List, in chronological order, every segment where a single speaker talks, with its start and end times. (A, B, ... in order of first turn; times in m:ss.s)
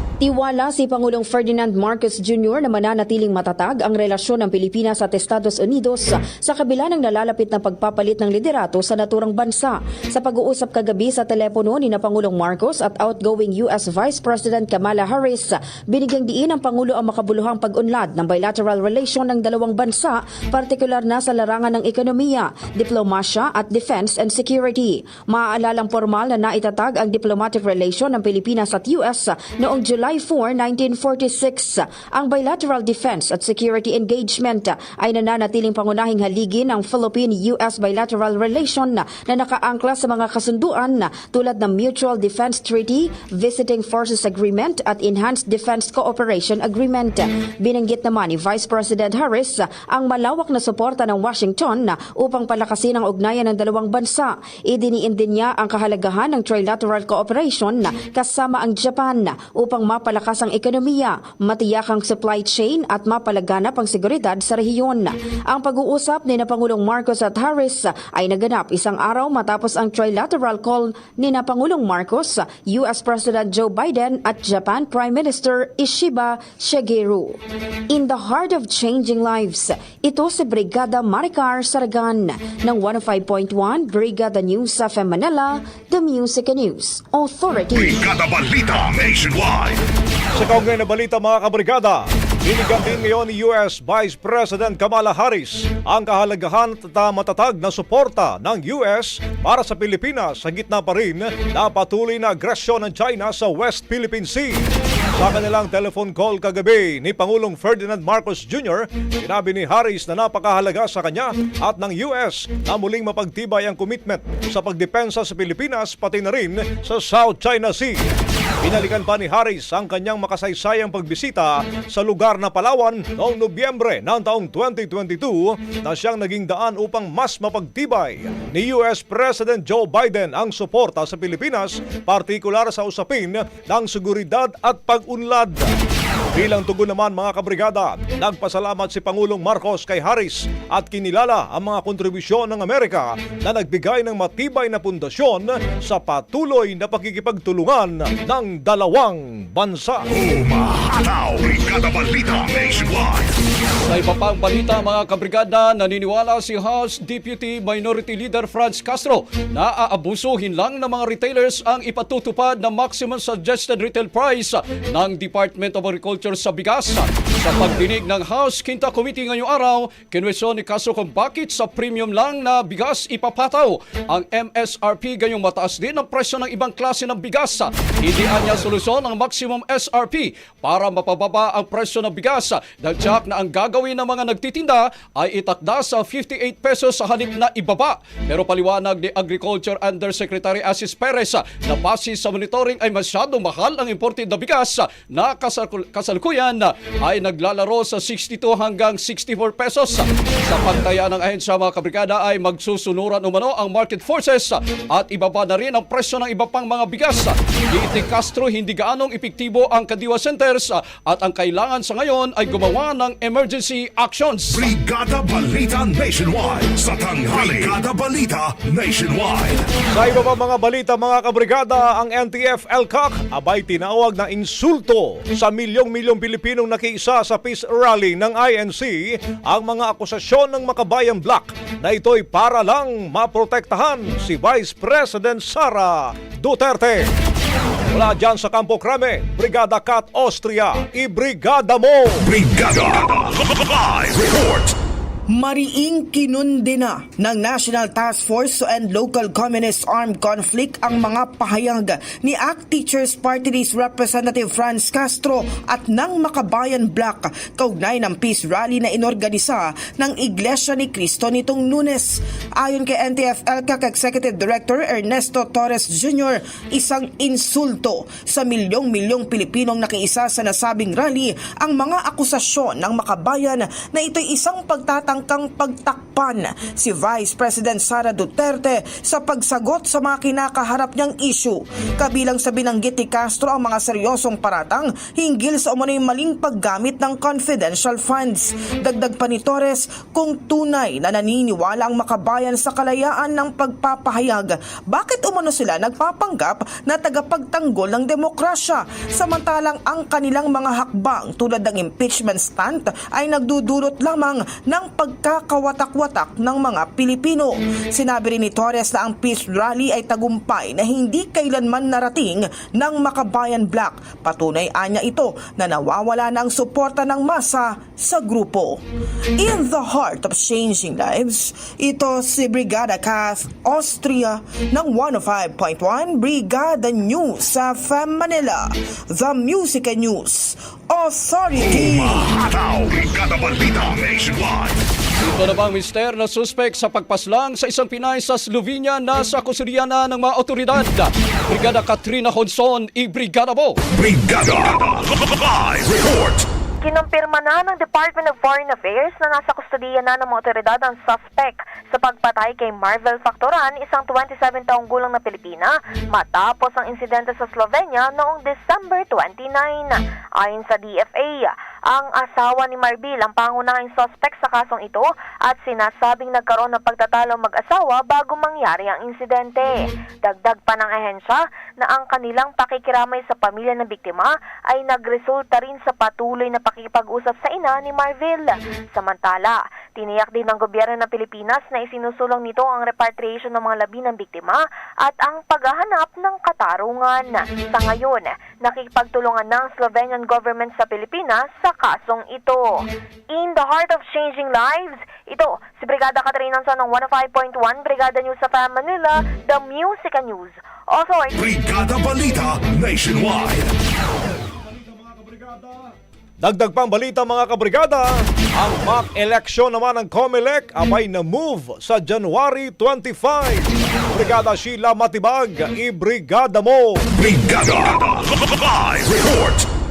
0:00.2-1:28.0 A
1:27.7-1:29.8 B
1:30.4-1:44.6 C
1:45.2-1:58.0 C
1:58.6-2:15.7 C
2:16.3-2:30.0 C
2:30.1-2:33.3 B
2:33.8-3:34.7 D
3:34.5-3:39.7 B
3:39.9-3:57.1 C
3:57.9-4:02.2 C
4:02.2-4:04.7 B
4:05.3-5:18.8 E
5:19.4-5:32.3 E
5:31.5-5:34.8 B
5:35.2-5:43.8 D
5:43.9-5:46.5 B
5:46.8-6:41.4 F
6:41.4-6:43.7 B
6:44.6-6:45.9 C
6:46.4-6:57.0 C
6:57.1-6:59.7 B